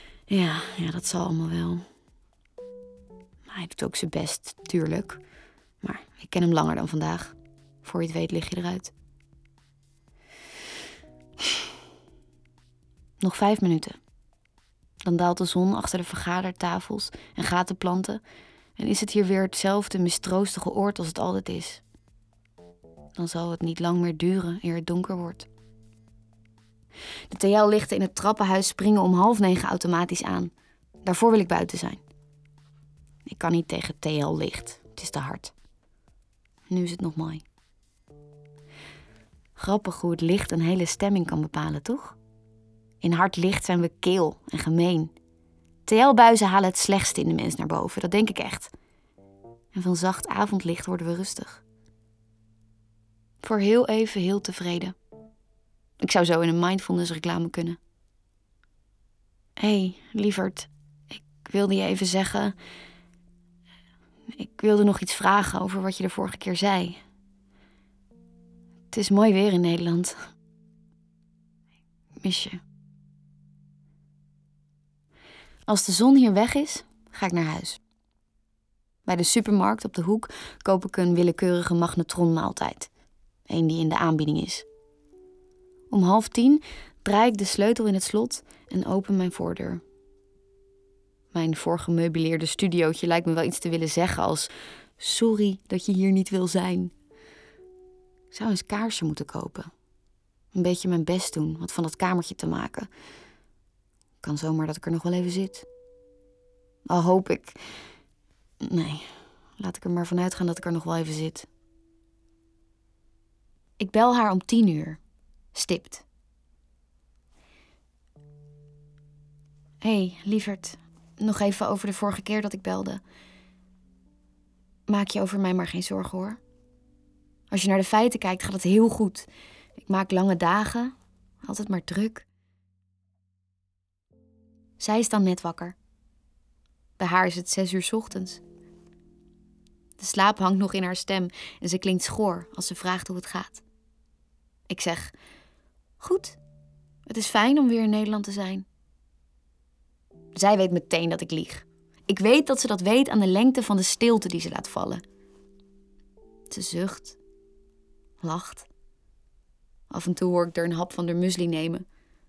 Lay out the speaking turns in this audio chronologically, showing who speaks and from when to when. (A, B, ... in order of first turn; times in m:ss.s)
0:00.3-0:01.8 A
0:03.5-0:05.2 A
0:05.8-0:08.9 A
0:13.2-0:14.0 A
0:15.0-0:18.2 A
0:18.8-0:21.8 A
0:23.1-0:25.5 A
0:27.3-0:30.5 A
0:31.0-0:32.0 A
0:33.2-0:35.5 A
0:36.7-0:37.4 A
0:39.6-0:42.2 A
0:43.0-0:45.1 A
0:45.8-0:48.7 A
0:49.7-0:51.6 A
0:53.4-0:55.0 A
0:56.0-0:57.8 A
0:59.6-1:02.5 A
1:04.3-1:07.0 A
1:08.9-1:10.2 A
1:12.2-1:12.6 A
1:15.6-1:17.8 A
1:19.0-1:22.9 A
1:23.5-1:24.6 A
1:25.9-1:29.8 A
1:31.3-1:36.9 A
1:38.3-1:39.7 A
1:40.5-1:42.9 A
1:44.2-1:45.7 A
1:46.8-1:47.6 A
1:48.6-1:51.5 A
1:53.8-1:55.0 A
1:55.5-1:56.0 A
1:59.8-2:03.0 A
2:04.9-2:06.4 A
2:07.5-2:09.3 A
2:09.8-2:12.2 A
2:14.8-2:15.8 A
2:17.0-2:18.4 A
2:20.0-2:23.6 A
2:24.7-2:25.1 A
2:26.0-2:26.4 A
2:27.0-2:28.6 A
2:30.3-2:35.0 A
2:36.5-2:37.2 A
2:38.2-2:38.7 A
2:39.9-2:41.8 A